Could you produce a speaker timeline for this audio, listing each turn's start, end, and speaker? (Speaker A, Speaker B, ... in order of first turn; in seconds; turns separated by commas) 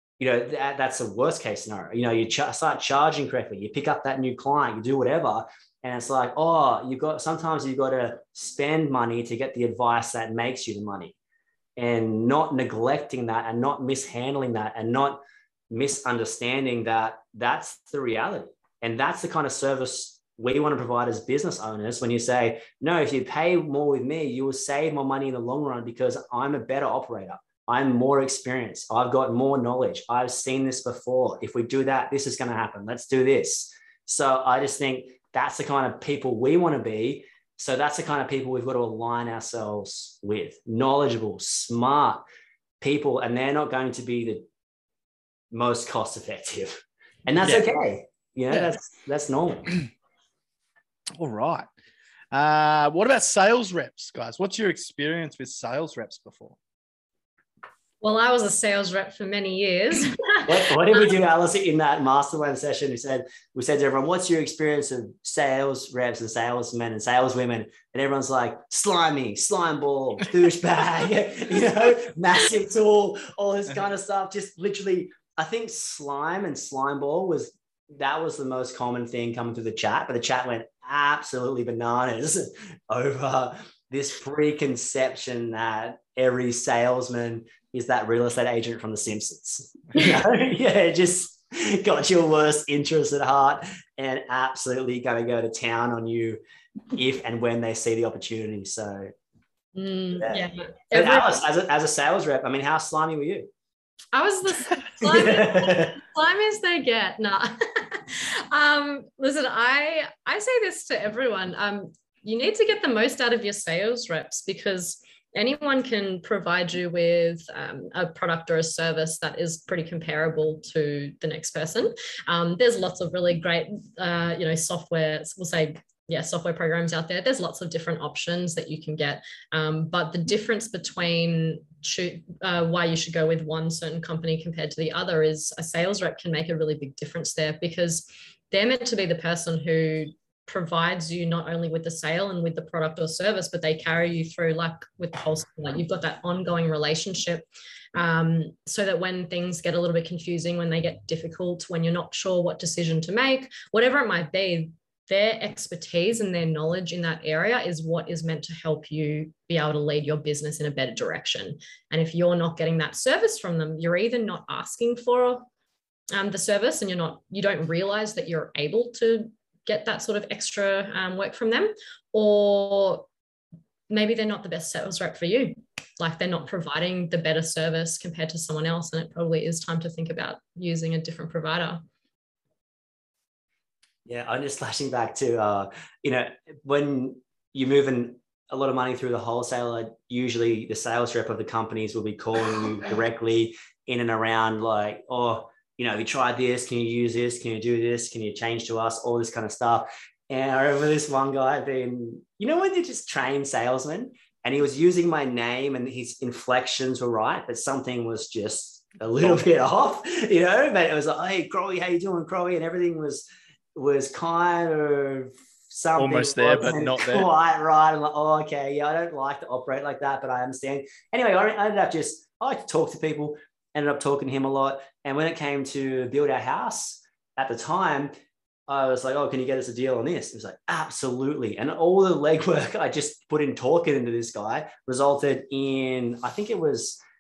Speaker A: 0.2-11.2, Speaker A: 11.8-42.2, Speaker A: 42.8-44.5, Speaker A: 45.5-49.8, Speaker B: 47.4-47.7, Speaker B: 51.2-51.7, Speaker B: 52.3-56.6, Speaker C: 58.0-60.5, Speaker A: 60.5-96.4, Speaker A: 96.9-99.1, Speaker C: 99.8-101.4, Speaker A: 100.2-103.5, Speaker C: 104.1-165.5, Speaker A: 105.0-106.0, Speaker C: 166.1-173.1, Speaker C: 173.9-181.8, Speaker A: 184.1-228.1, Speaker B: 216.0-217.3, Speaker A: 228.7-237.0